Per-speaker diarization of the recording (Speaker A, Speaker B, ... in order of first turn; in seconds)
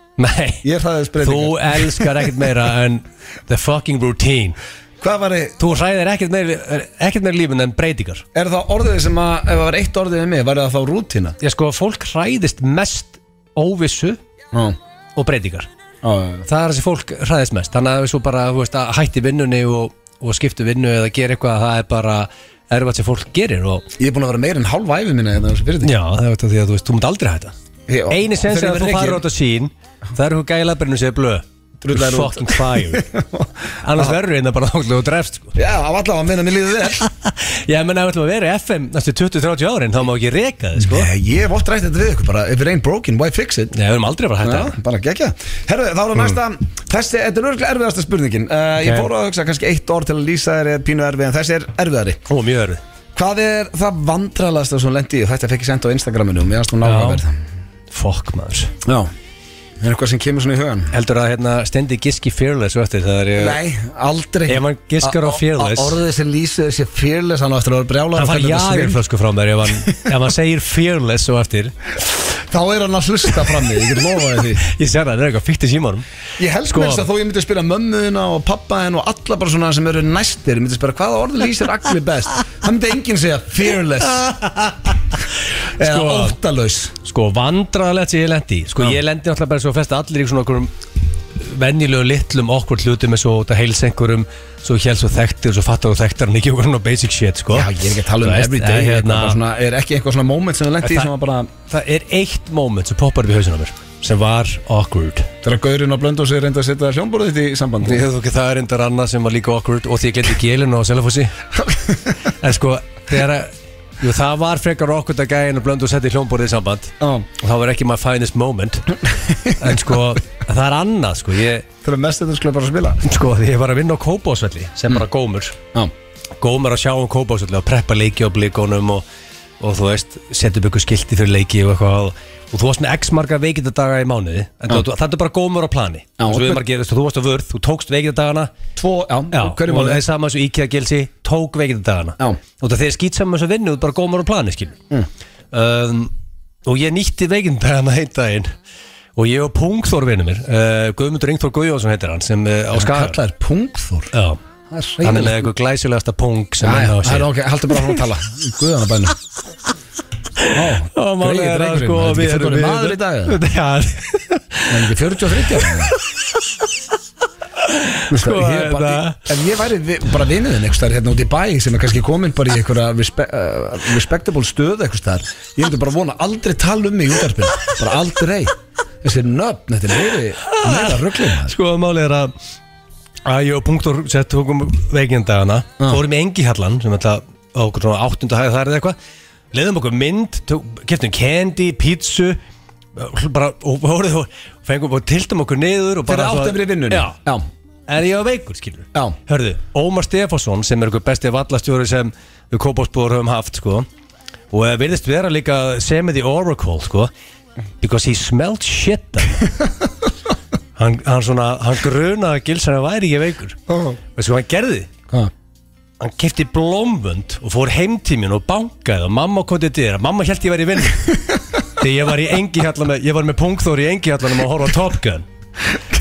Speaker A: 0.2-0.6, 1.2-4.6, 5.6-8.2, 11.4-14.2, 15.2-15.7, 16.5-23.8, 25.8-27.5, 28.1-33.0, 33.8-35.5, 37.0-41.1, 43.7-44.7, 48.8-49.1, 52.3-52.8, 56.8-57.2, 57.9-58.7, 60.9-63.6, 64.5-66.0, 68.2-71.7, 74.6-76.0, 76.7-77.0, 84.2-84.9, 85.8-86.3, 87.0-90.7, 91.3-97.7, 98.2-99.4, 100.8-101.1, 101.7-105.3, 107.8-111.3, 112.3-119.0, 119.6-121.6, 123.0-125.5, 126.4-129.0, 129.6-138.5, 139.3-144.8, 145.5-146.1, 146.6-148.5, 149.2-153.2, 154.1-154.4, 155.0-157.3, 160.4-164.9, 167.6-169.2, 180.5-182.3, 183.2-188.9, 189.5-192.4, 192.9-197.2, 197.9-203.9, 204.5-207.1, 207.8-209.4, 210.8-213.6, 214.2-214.9, 216.0-221.1, 221.8-225.2
Speaker B: 0.6-2.3, 5.0-5.6, 8.3-11.4, 16.0-16.4, 24.0-25.9, 27.9-29.2, 31.8-34.2, 35.5-37.0, 40.8-43.7, 44.4-52.2, 53.1-57.3, 58.8-59.1, 59.8-60.9, 63.4-69.0, 72.4-74.6, 76.4-84.4, 85.8-86.9, 97.5-101.5, 105.4-108.0, 111.6-112.0, 117.0-117.3, 119.2-120.0, 121.8-123.0, 136.2-136.6, 138.8-140.0, 152.7-154.1, 154.7-155.4, 156.6-159.2, 160.5-163.4, 164.7-165.9, 168.1-181.5, 196.1-197.4, 213.7-214.0